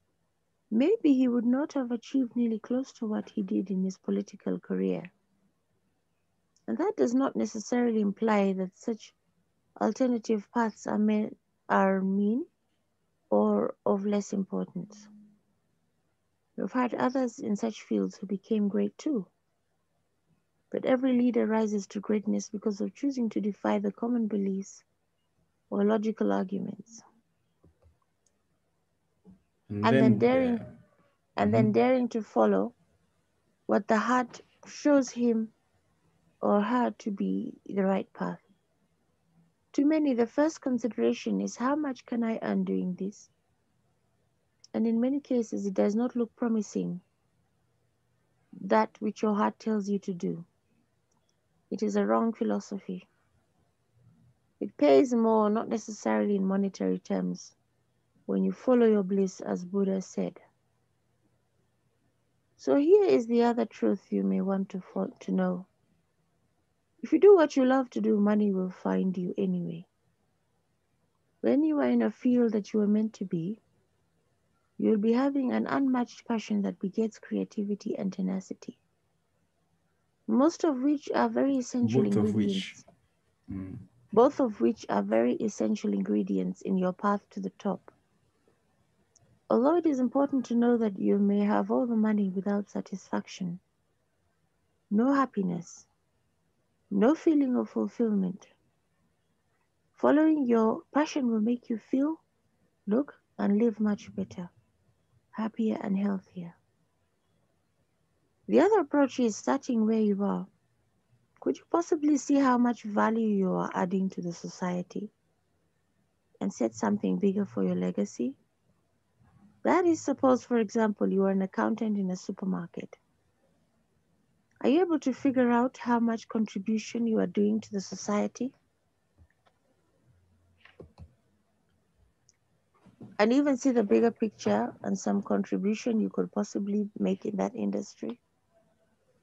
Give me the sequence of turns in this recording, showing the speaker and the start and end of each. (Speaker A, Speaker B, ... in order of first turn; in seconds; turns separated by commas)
Speaker A: 0.7-5.1, Speaker A: 6.7-9.2, Speaker A: 9.8-12.5, Speaker A: 13.3-15.1, Speaker A: 16.6-19.3, Speaker A: 20.7-24.8, Speaker A: 25.7-27.0, Speaker B: 29.7-30.7, Speaker A: 29.8-30.6, Speaker A: 31.4-32.8, Speaker B: 31.4-31.7, Speaker A: 33.7-35.5, Speaker A: 36.4-38.4, Speaker A: 39.7-43.3, Speaker A: 44.7-47.0, Speaker A: 48.6-50.5, Speaker A: 51.7-53.1, Speaker A: 54.6-57.6, Speaker A: 58.3-60.4, Speaker A: 62.6-65.7, Speaker A: 67.0-69.9, Speaker A: 71.4-73.6, Speaker A: 74.8-78.8, Speaker A: 80.3-82.8, Speaker B: 81.8-82.8, Speaker B: 83.5-83.8, Speaker A: 84.1-87.9, Speaker A: 89.5-93.6, Speaker A: 94.9-95.9, Speaker A: 96.9-98.5, Speaker A: 99.9-102.2, Speaker A: 102.9-104.5, Speaker A: 105.3-106.6, Speaker A: 108.5-110.5, Speaker A: 111.4-115.1, Speaker A: 116.4-118.4, Speaker A: 119.6-123.0, Speaker A: 124.6-128.5, Speaker A: 133.2-138.2